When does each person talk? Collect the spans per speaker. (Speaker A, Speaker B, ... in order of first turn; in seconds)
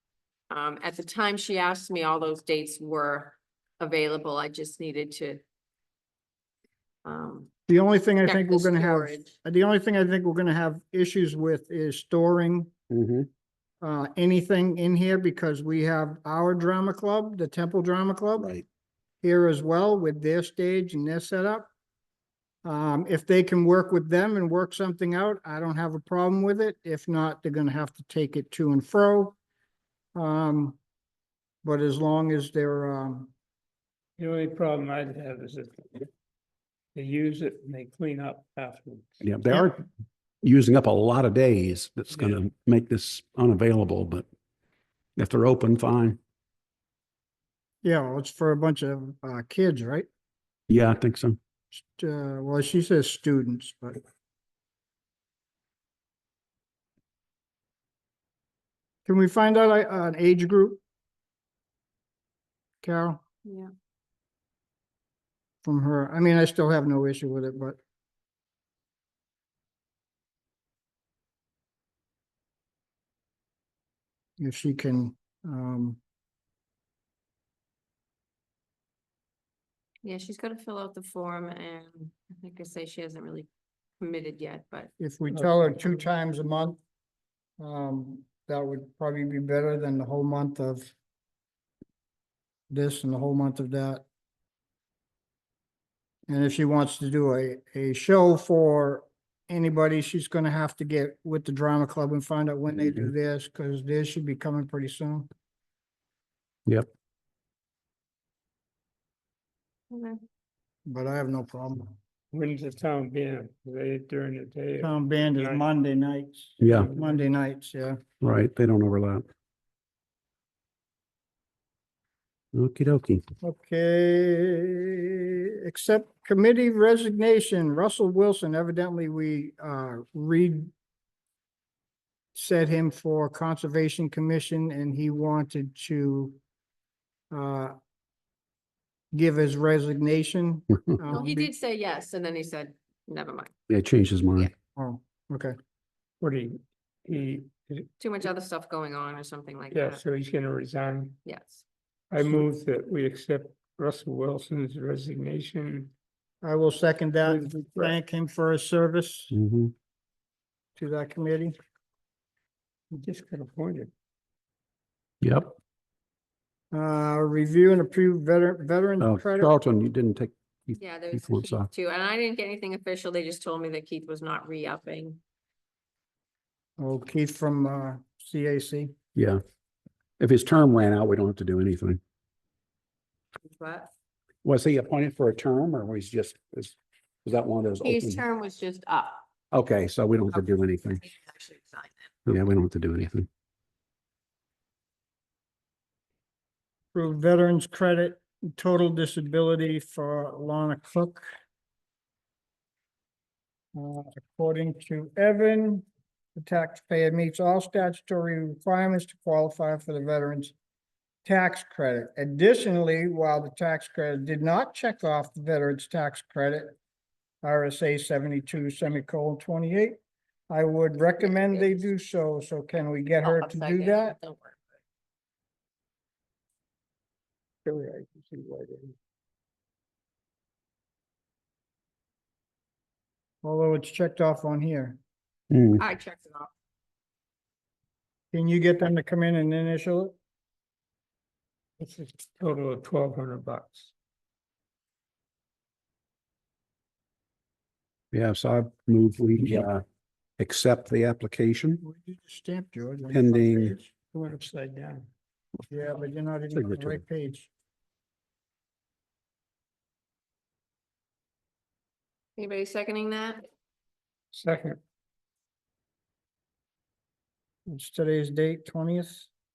Speaker A: 0.5-5.4, 7.0-7.5, 8.2-9.3, 63.4-63.7, 80.0-83.5, 84.0-84.9, 109.9-110.2, 141.1-143.5, 148.0-150.0, 151.2-151.7, 170.7-175.2, 183.4-183.9, 187.8-189.3, 191.0-192.1, 221.0-221.9, 223.2-224.6, 235.8-236.5, 262.4-263.5
Speaker B: 7.7-12.7, 13.8-18.5, 19.2-21.7, 22.6-29.4, 30.1-30.8, 31.6-33.3, 47.8-50.1, 51.7-54.0, 59.1-60.8, 62.8-63.2, 65.6-67.8, 74.4-76.0, 85.0-86.8, 87.6-90.9, 92.7-94.0, 96.3-105.3, 110.9-112.0, 114.8-118.0, 123.4-130.7, 132.3-136.4, 137.3-137.8, 139.1-141.5, 144.8-145.6, 156.4-159.3, 160.8-161.6, 166.7-169.5, 176.8-178.9, 196.9-201.3, 203.7-210.5, 211.2-216.8, 217.4-220.0, 220.5-224.2, 233.4-235.0, 238.3-240.2, 251.8-253.9, 255.7-257.5, 267.7-269.3
Speaker C: 12.9-13.3, 39.3-39.8, 40.4-44.2, 45.2-46.2, 50.7-51.4, 118.2-119.2, 122.5-123.2, 143.7-144.5, 169.1-170.3, 171.1-171.7, 180.2-182.0, 184.5-186.7, 187.3-188.1, 189.5-191.0, 192.4-193.2, 235.5-235.8, 248.3-249.8, 250.5-251.8, 253.1-253.8, 256.6-257.0
Speaker D: 34.2-36.1, 37.0-39.2, 42.1-42.4, 85.3-86.0, 112.3-115.7, 116.6-117.2, 146.2-147.9, 149.7-151.2, 152.1-155.9, 157.2-157.9, 162.9-163.9, 227.7-228.9, 241.8-243.9, 254.1-255.1, 264.3-264.8